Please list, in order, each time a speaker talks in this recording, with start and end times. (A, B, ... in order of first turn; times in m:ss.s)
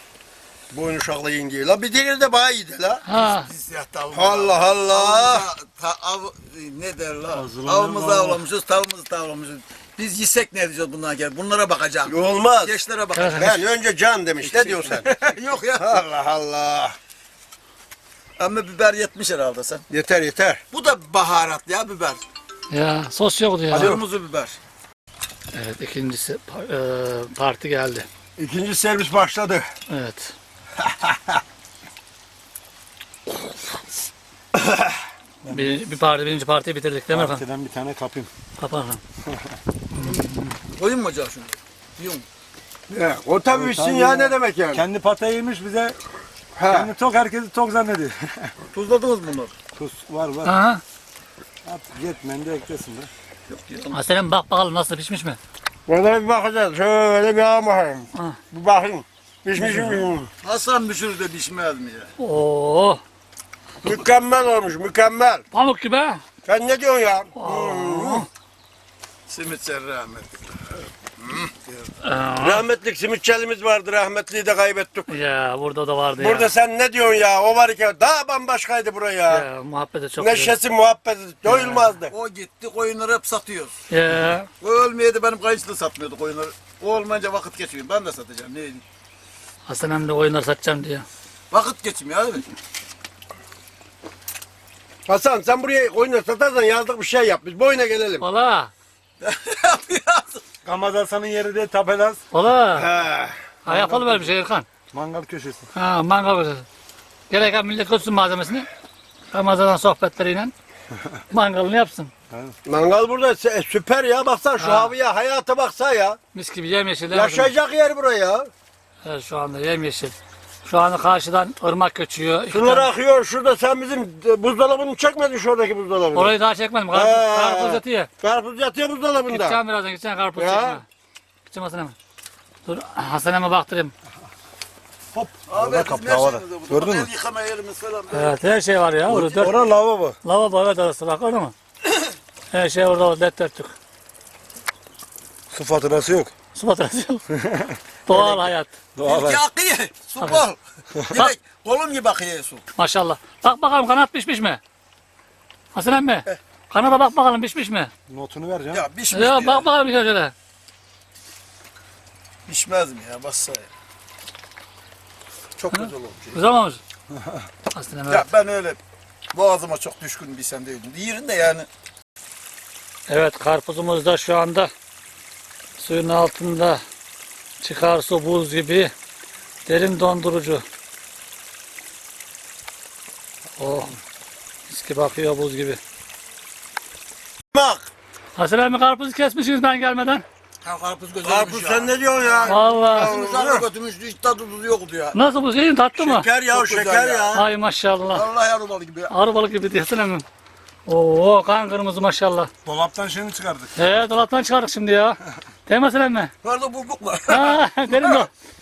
0:00.7-0:03.0 A
0:03.0-0:03.5 B
0:03.1-0:13.6 C
0:04.1-0:05.5 A
0:07.3-0:08.4 D
0:12.0-0:12.8 A
0:13.1-0:13.5 B
0:13.3-0:15.1 A
0:14.4-0:16.0 C
0:15.7-0:16.9 A
0:18.4-0:19.8 C
0:19.9-0:20.6 A
0:20.7-0:22.2 C
0:22.7-0:23.9 B
0:23.7-0:24.6 C
0:23.7-0:24.0 A
0:25.5-0:28.1 B
0:28.4-0:29.7 A
0:29.9-0:30.3 B
0:30.8-0:31.4 A
0:34.5-0:35.0 A
0:35.4-0:35.8 D
0:35.5-0:37.4 B
0:37.1-0:38.3 D
0:38.6-0:39.0 B
0:39.2-0:39.6 D
0:39.9-0:40.5 B
0:40.1-0:42.2 C
0:42.9-0:44.8 A
0:43.5-0:46.0 D
0:46.6-0:46.9 A
0:46.7-0:48.5 D
0:48.7-0:49.5 C
0:49.7-0:50.5 D
0:50.4-0:50.8 B
0:51.6-0:53.1 D
0:53.5-0:54.0 C
0:53.9-0:55.4 B
0:55.9-1:00.3 A
0:59.6-1:00.1 B
1:00.4-1:02.1 C
1:02.2-1:03.0 B
1:03.8-1:05.4 A
1:05.5-1:06.2 B
1:06.4-1:08.3 A
1:07.3-1:08.3 B
1:09.3-1:10.4 C
1:11.2-1:11.9 C
1:12.0-1:12.6 B
1:12.4-1:15.1 A
1:15.1-1:16.5 B
1:16.2-1:19.4 A
1:19.3-1:20.6 B
1:20.2-1:22.1 A
1:21.4-1:21.9 B
1:22.1-1:23.7 C
1:23.9-1:24.5 B
1:24.6-1:28.8 C
1:29.7-1:31.0 B
1:31.5-1:32.4 C
1:35.1-1:38.2 A
1:38.2-1:38.7 B
1:39.2-1:40.4 C
1:40.6-1:42.2 D
1:42.3-1:42.9 B
1:42.7-1:43.4 A
1:43.6-1:44.3 D
1:43.6-1:44.7 B
1:44.9-1:45.7 D
1:45.7-1:46.6 B
1:47.3-1:48.7 B
1:49.3-1:50.5 B
1:51.3-1:52.1 B
1:52.6-1:56.2 A
1:54.6-1:54.9 B
1:56.3-1:57.5 B
1:57.1-1:58.5 A
1:59.0-2:02.9 B
2:02.5-2:06.3 A
2:06.1-2:08.1 B
2:06.9-2:09.6 A
2:09.3-2:10.8 B
2:10.3-2:10.8 A
2:11.5-2:11.9 B
2:12.6-2:13.9 B
2:15.1-2:18.4 C
2:15.5-2:17.1 D
2:18.1-2:19.6 B
2:19.1-2:20.2 D
2:20.2-2:21.5 B
2:22.5-2:23.7 B
2:25.5-2:26.3 D
2:26.5-2:27.2 B
2:27.3-2:27.8 D
2:28.0-2:28.7 B
2:28.1-2:28.4 C
2:28.9-2:29.4 D
2:29.0-2:32.6 C
2:30.9-2:31.2 D
2:32.8-2:34.6 B
2:35.7-2:37.9 B
2:38.1-2:38.8 D
2:38.7-2:39.6 C
2:39.1-2:40.3 B
2:42.5-2:43.7 C
2:45.6-2:46.4 A
2:45.7-2:46.8 B
2:47.1-2:47.5 D
2:47.7-2:48.3 B
2:48.1-2:48.8 C
2:49.3-2:51.7 C
2:53.1-2:54.7 B
2:55.8-2:56.8 B
2:57.6-2:58.9 B
2:59.7-3:00.6 B
3:03.6-3:03.9 B
3:04.7-3:05.8 B
3:07.5-3:07.9 A
3:08.4-3:10.2 B
3:10.6-3:15.2 C
3:11.2-3:13.6 A
3:12.4-3:13.1 B
3:15.1-3:16.3 B
3:16.0-3:17.4 A
3:16.5-3:17.4 C
3:17.3-3:18.2 B
3:18.1-3:19.1 C
3:19.1-3:20.2 B
3:20.8-3:22.5 B
3:22.6-3:23.8 D
3:23.8-3:26.3 B
3:26.4-3:28.2 C
3:27.3-3:28.3 B